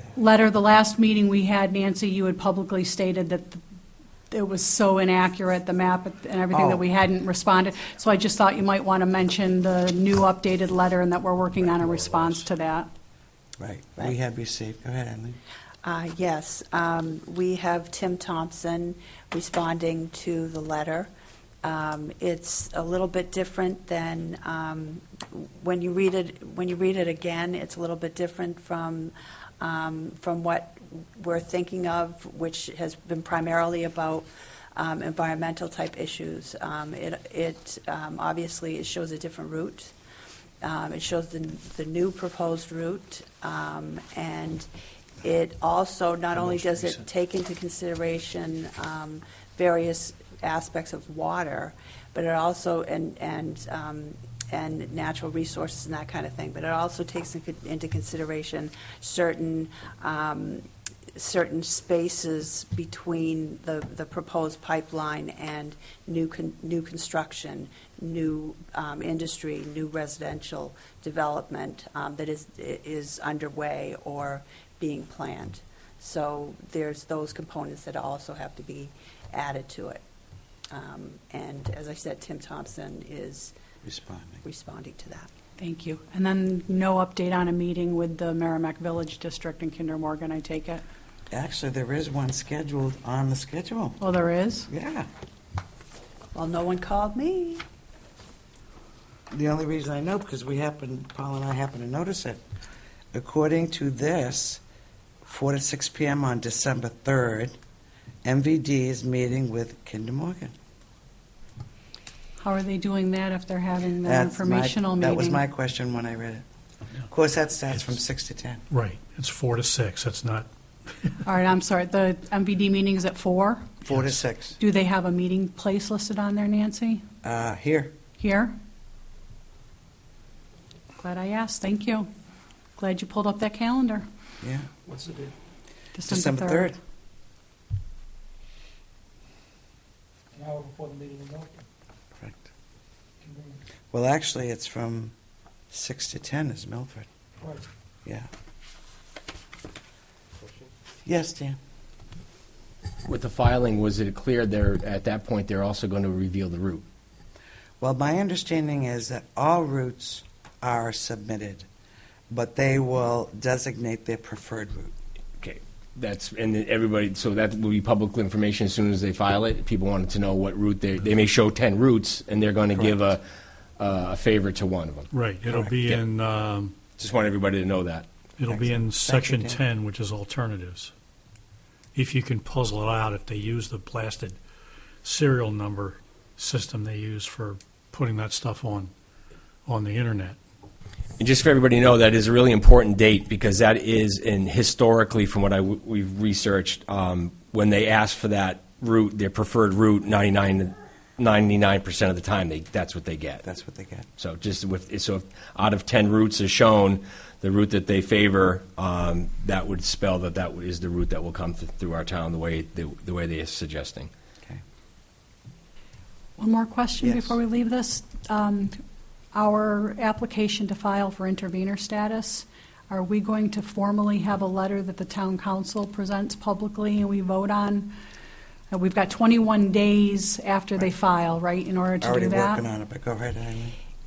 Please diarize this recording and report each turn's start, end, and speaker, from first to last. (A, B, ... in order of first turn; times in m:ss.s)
0:00.1-0:03.6 A
0:04.3-0:12.9 A
0:06.5-0:06.8 B
0:13.6-0:15.4 B
0:15.8-0:21.1 C
0:21.6-0:39.9 C
0:40.6-0:44.7 C
0:45.2-1:00.6 C
1:01.2-1:20.0 C
1:20.7-1:23.5 C
1:23.8-1:24.4 B
1:24.4-1:25.3 C
1:25.6-1:30.8 A
1:31.3-1:34.0 B
1:34.0-1:34.7 A
1:34.7-1:35.1 B
1:36.3-1:37.6 C
1:39.3-1:42.4 B
1:43.1-1:44.6 B
1:45.2-1:47.5 B
1:48.2-1:50.5 B
1:52.4-1:55.4 A
1:54.0-1:56.4 B
1:57.1-1:58.6 B
1:58.7-2:00.5 D
2:01.2-2:03.8 A
2:03.9-2:04.2 D
2:03.9-2:04.6 B
2:04.6-2:07.0 A
2:07.2-2:07.9 B
2:08.2-2:08.5 A
2:11.0-2:12.1 A
2:12.8-2:14.0 A
2:14.4-2:14.7 B
2:14.9-2:15.3 E
2:15.9-2:16.7 A
2:16.1-2:16.8 B
2:20.3-2:21.6 E
2:22.2-2:22.4 B
2:23.2-2:23.5 E
2:23.9-2:25.1 B
2:25.7-2:27.1 B
2:31.0-2:31.6 B
2:33.0-2:36.8 F
2:37.8-2:41.7 B
2:42.3-2:44.9 B
2:45.4-2:53.2 F
2:53.8-2:55.1 F
2:55.1-2:56.8 D
2:57.0-2:58.1 F
2:58.4-3:00.9 D
2:58.4-2:59.6 B
3:01.9-3:04.4 D
3:05.0-3:08.9 D
3:09.6-3:10.4 D
3:11.2-3:23.4 F
3:23.4-3:24.1 B
3:24.2-3:34.1 F
3:36.4-3:38.8 A
3:37.0-3:37.4 B
3:39.3-3:47.9 A
3:48.7-3:52.6 A
3:52.0-3:53.8 B